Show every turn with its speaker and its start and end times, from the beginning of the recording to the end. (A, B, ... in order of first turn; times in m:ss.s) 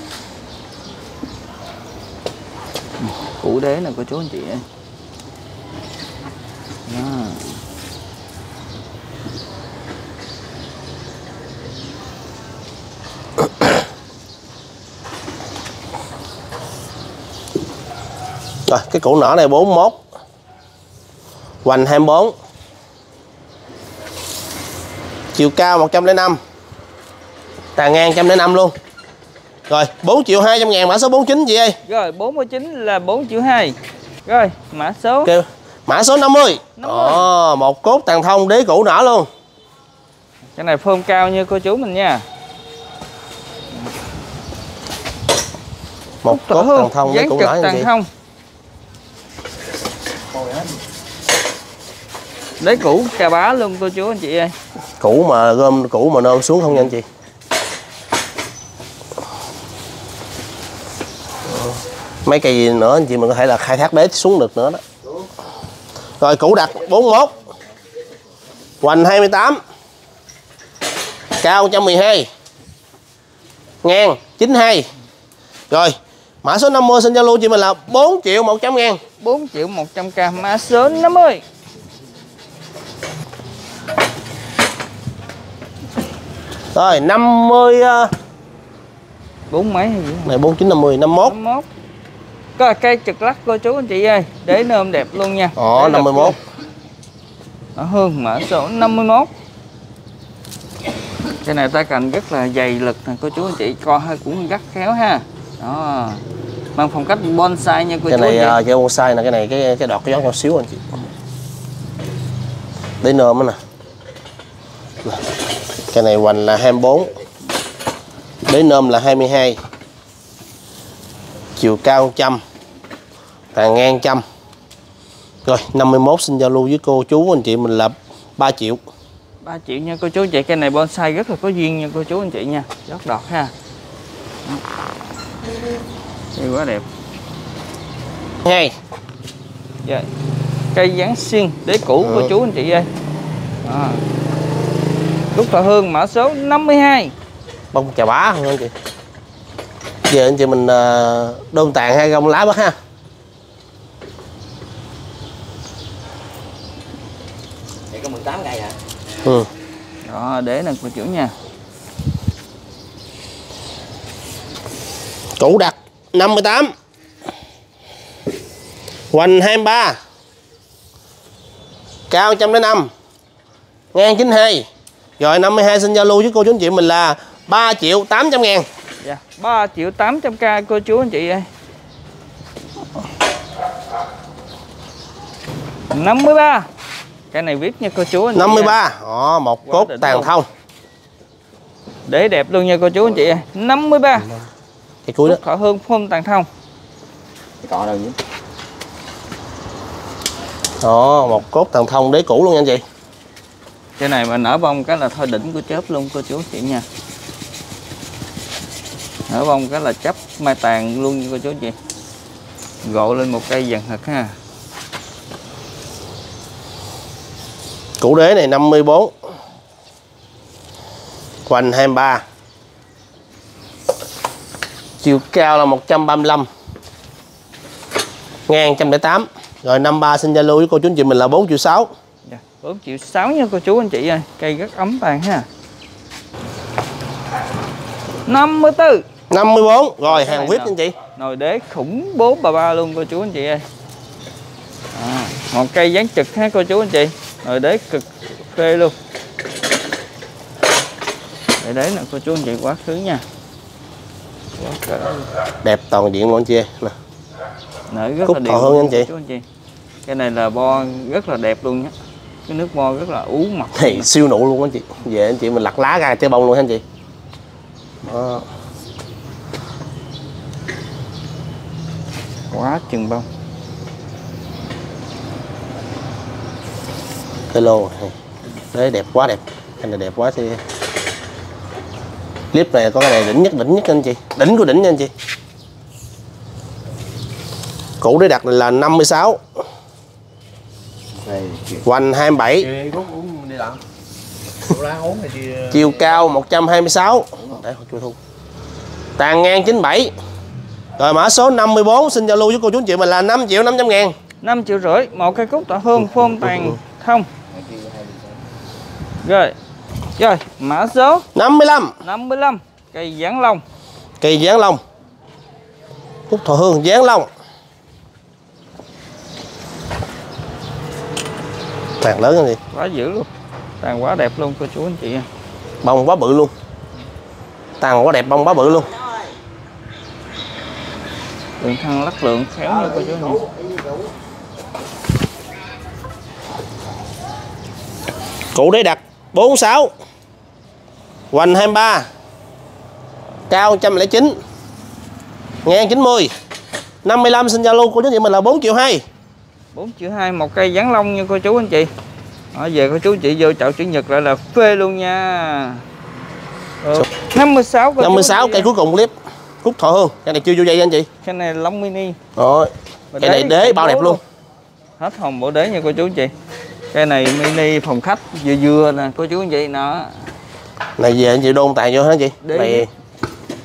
0:03.0-0:04.7 A
0:06.9-0:07.6 A
0:18.7-0:20.0 B
0:21.6-0:22.3 B
0:25.4-0:26.4 B
0:27.8-0:28.7 B
0:29.7-0:31.8 B
0:31.8-0:35.3 A
0:35.2-0:39.3 B
0:36.8-0:37.3 A
0:40.6-0:42.2 A
0:46.2-0:47.9 B
0:46.2-0:48.1 A
0:52.6-0:54.6 A
0:55.0-0:57.0 B
1:02.2-1:04.8 B
1:06.2-1:07.4 B
1:08.8-1:09.6 B
1:11.4-1:12.3 B
1:13.8-1:14.9 B
1:15.7-1:19.0 B
1:19.2-1:21.4 A
1:26.7-1:28.1 B
1:29.5-1:30.4 A
1:30.3-1:31.4 B
1:31.2-1:31.7 A
1:32.6-1:36.4 A
1:35.6-1:36.4 B
1:37.8-1:39.3 A
1:41.4-1:46.2 A
1:46.8-1:48.6 A
1:48.1-1:50.9 B
1:53.0-1:53.6 B
1:55.9-1:57.1 B
1:58.5-1:59.6 B
2:01.6-2:02.4 B
2:03.5-2:04.2 B
2:05.4-2:08.8 B
2:09.4-2:13.5 A
2:16.4-2:16.8 A
2:18.4-2:18.8 B
2:20.7-2:22.9 A
2:22.0-2:22.3 B
2:23.6-2:24.0 A
2:25.3-2:27.1 A
2:27.7-2:28.7 B
2:30.1-2:32.8 B
2:37.9-2:38.8 C
2:39.2-2:39.5 B
2:40.0-2:41.4 A
2:45.4-2:46.7 B
2:49.1-2:50.0 B
2:52.1-2:52.9 B
2:53.9-2:54.7 B
2:55.2-2:58.7 B
2:59.0-3:01.5 A
3:05.9-3:06.7 A
3:07.3-3:08.8 A
3:08.4-3:10.5 B
3:09.6-3:10.3 A
3:12.1-3:14.3 A
3:15.1-3:15.4 B
3:15.2-3:16.5 A
3:17.6-3:18.2 C
3:20.8-3:22.8 B
3:24.0-3:26.8 A
3:29.3-3:31.8 A
3:32.8-3:34.4 A
3:38.0-3:39.1 B
3:41.5-3:42.2 B
3:45.0-3:46.5 B
3:48.5-3:51.9 B
3:52.2-3:55.5 A
3:58.3-3:59.0 A
3:59.3-4:01.0 B
4:00.0-4:03.7 A
4:04.9-4:09.0 A
4:11.6-4:13.2 A
4:14.6-4:15.3 A
4:15.6-4:16.9 B
4:17.9-4:19.4 A
4:18.2-4:19.1 B
4:20.1-4:21.9 A
4:22.5-4:24.1 A
4:23.8-4:26.8 B
4:28.0-4:28.5 B
4:32.5-4:33.3 A
4:37.5-4:38.1 B
4:38.7-4:40.6 B
4:42.5-4:45.1 B
4:48.0-4:49.4 B
4:51.3-4:51.8 C
4:51.8-4:52.7 B
4:52.8-4:53.8 C
4:54.8-4:55.7 C
4:55.7-4:58.2 B
4:59.2-5:00.1 B
5:01.0-5:04.2 B
5:04.4-5:07.3 A
5:06.2-5:06.8 B
5:07.7-5:08.2 C
5:09.2-5:09.5 A
5:10.2-5:11.3 A
5:11.4-5:12.0 B
5:12.0-5:13.6 A
5:14.2-5:14.8 B
5:16.3-5:17.3 B
5:22.0-5:22.6 B
5:22.7-5:23.3 A
5:23.8-5:25.3 A
5:25.8-5:26.5 B
5:27.8-5:28.9 B
5:31.6-5:33.5 A
5:38.6-5:39.9 B
5:41.3-5:42.1 B
5:43.5-5:44.4 B
5:45.6-5:46.3 B
5:47.0-5:49.0 B
5:49.7-5:51.9 A
5:52.5-5:55.9 A
5:56.8-5:58.7 A
5:58.0-6:01.1 B
6:01.2-6:02.2 A
6:02.4-6:04.2 B
6:03.1-6:04.2 A
6:05.0-6:06.3 A
6:06.9-6:10.3 A
6:11.0-6:12.9 B
6:12.4-6:12.9 A